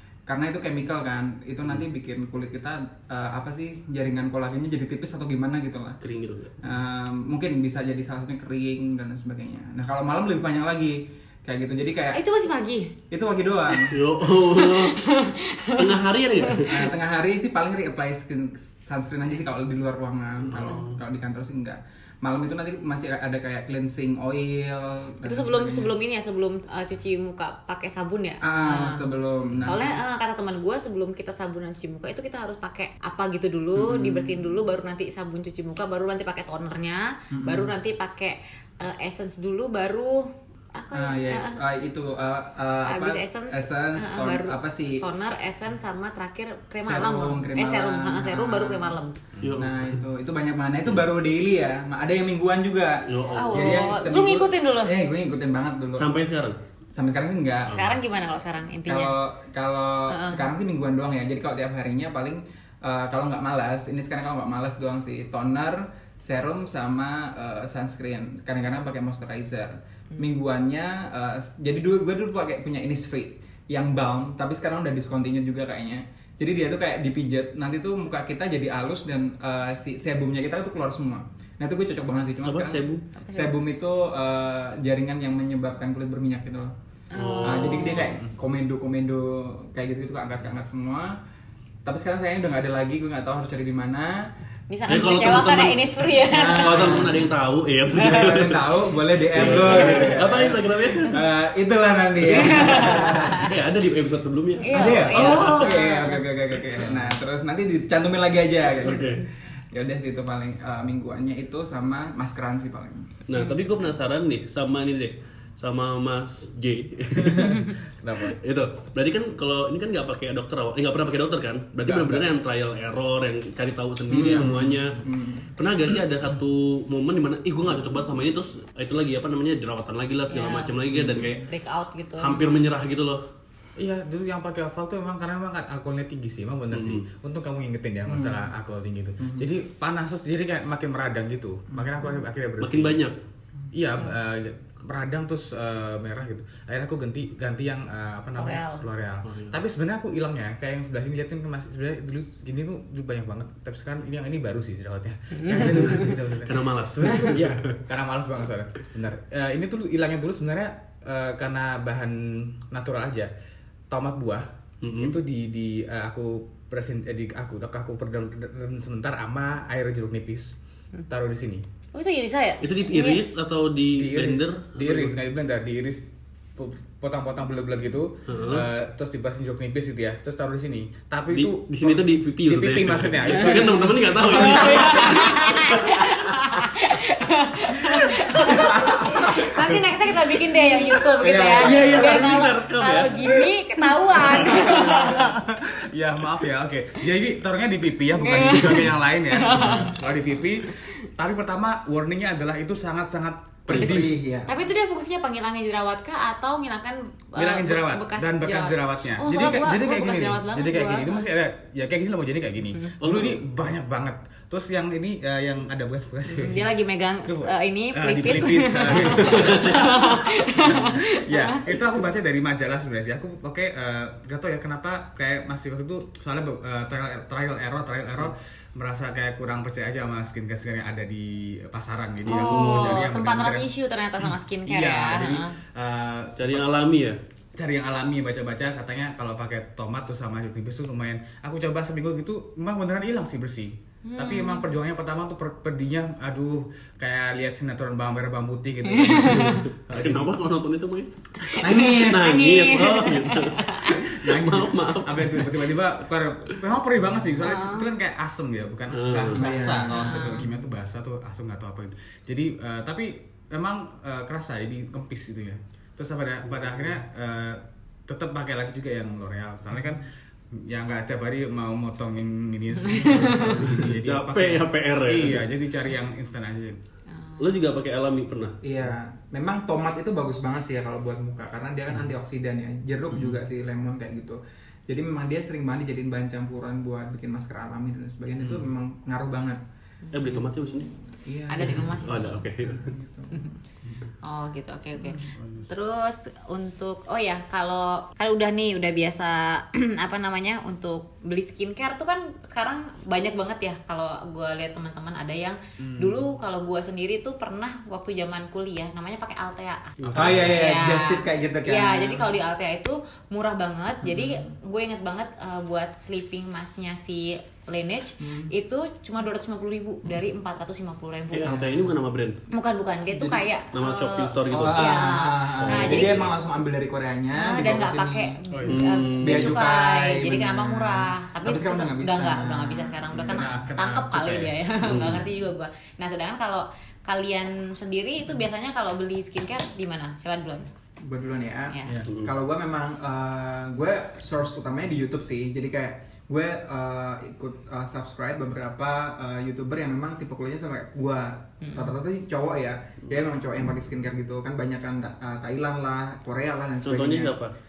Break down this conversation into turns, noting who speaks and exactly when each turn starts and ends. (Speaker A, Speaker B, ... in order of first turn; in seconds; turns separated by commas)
Speaker A: 0.3-6.0, Speaker B: 6.0-6.6, Speaker A: 6.6-12.2, Speaker C: 12.1-12.9, Speaker A: 13.1-14.0, Speaker B: 13.9-15.0, Speaker C: 14.3-16.7, Speaker B: 15.7-16.9, Speaker A: 16.7-25.9, Speaker B: 20.4-21.0, Speaker C: 25.2-29.0, Speaker A: 28.4-29.9, Speaker C: 29.6-41.6, Speaker A: 33.8-34.4, Speaker A: 37.3-37.7, Speaker A: 40.9-45.0, Speaker C: 42.8-49.1, Speaker A: 46.8-49.0, Speaker B: 49.4-50.0, Speaker A: 49.5-56.1, Speaker B: 53.1-53.9, Speaker C: 53.3-54.9, Speaker B: 56.0-56.6, Speaker A: 56.9-57.9, Speaker C: 57.7-59.1, Speaker A: 58.9-86.7, Speaker C: 60.1-60.4, Speaker B: 82.4-83.0, Speaker C: 83.1-83.6, Speaker C: 87.1-88.2, Speaker B: 87.1-88.0, Speaker A: 87.4-91.2, Speaker A: 91.8-94.3, Speaker C: 94.7-97.1, Speaker B: 94.9-101.2, Speaker A: 96.2-97.3, Speaker A: 97.9-103.5, Speaker C: 102.3-103.5, Speaker B: 102.4-105.8, Speaker C: 104.6-106.2, Speaker A: 104.7-113.1, Speaker D: 106.8-107.1, Speaker B: 108.8-109.2, Speaker B: 113.3-131.5, Speaker D: 117.2-118.4, Speaker D: 121.8-122.3, Speaker D: 124.1-124.9, Speaker A: 124.1-125.5, Speaker C: 130.3-130.8, Speaker A: 131.0-131.3, Speaker C: 131.4-132.5, Speaker B: 132.2-133.2, Speaker D: 133.8-143.0, Speaker B: 136.7-137.0, Speaker A: 138.1-138.4, Speaker A: 139.2-139.5, Speaker B: 142.6-143.2, Speaker D: 143.7-163.3, Speaker C: 148.4-148.8, Speaker B: 149.2-149.5, Speaker C: 155.3-156.1, Speaker B: 155.5-157.8, Speaker D: 163.9-170.6, Speaker B: 164.8-165.2, Speaker D: 171.1-171.6, Speaker C: 171.9-173.2, Speaker B: 172.6-175.2, Speaker D: 173.9-185.1, Speaker B: 178.3-178.7, Speaker B: 181.3-186.0, Speaker C: 184.3-195.3, Speaker A: 188.1-189.7, Speaker A: 191.1-192.4, Speaker B: 191.5-193.4, Speaker A: 194.2-195.4, Speaker B: 194.2-194.7, Speaker D: 194.9-204.2, Speaker C: 198.1-200.0, Speaker B: 203.7-204.1, Speaker A: 203.7-204.5, Speaker C: 204.4-211.2, Speaker D: 207.3-216.7, Speaker B: 213.0-213.4, Speaker C: 216.3-221.8, Speaker D: 217.2-233.7, Speaker B: 219.3-219.7, Speaker C: 232.2-235.5, Speaker B: 232.3-233.0, Speaker D: 234.7-236.7, Speaker B: 236.4-237.2, Speaker D: 237.6-250.3, Speaker C: 244.0-244.6, Speaker C: 248.9-249.7, Speaker B: 249.2-255.8, Speaker C: 251.4-254.0, Speaker A: 251.6-252.7, Speaker D: 253.9-276.8, Speaker C: 257.4-257.9, Speaker B: 258.9-259.5, Speaker A: 259.3-260.3, Speaker C: 259.9-260.5, Speaker C: 272.9-273.6, Speaker B: 273.5-275.4, Speaker C: 277.2-277.6, Speaker B: 277.4-278.6, Speaker A: 278.6-289.6, Speaker D: 288.4-288.6, Speaker C: 290.1-290.4, Speaker B: 290.1-290.9, Speaker A: 290.2-293.6, Speaker C: 291.5-292.5, Speaker B: 291.8-292.9, Speaker C: 294.2-321.5, Speaker A: 295.0-295.3, Speaker D: 295.2-295.7, Speaker D: 305.8-306.2, Speaker B: 310.0-310.5, Speaker D: 310.0-310.5, Speaker A: 310.1-312.3, Speaker A: 314.0-314.5, Speaker A: 318.2-318.5, Speaker B: 321.3-322.4, Speaker A: 321.4-321.9, Speaker C: 322.5-326.3, Speaker A: 323.1-323.4, Speaker B: 323.7-326.3, Speaker A: 324.5-328.4, Speaker C: 327.3-340.7, Speaker D: 328.5-328.8, Speaker B: 328.6-329.5, Speaker A: 329.2-333.6, Speaker D: 333.2-335.1, Speaker B: 334.8-335.2, Speaker A: 341.0-357.4, Speaker B: 342.1-342.3, Speaker C: 351.6-351.9, Speaker B: 356.8-357.5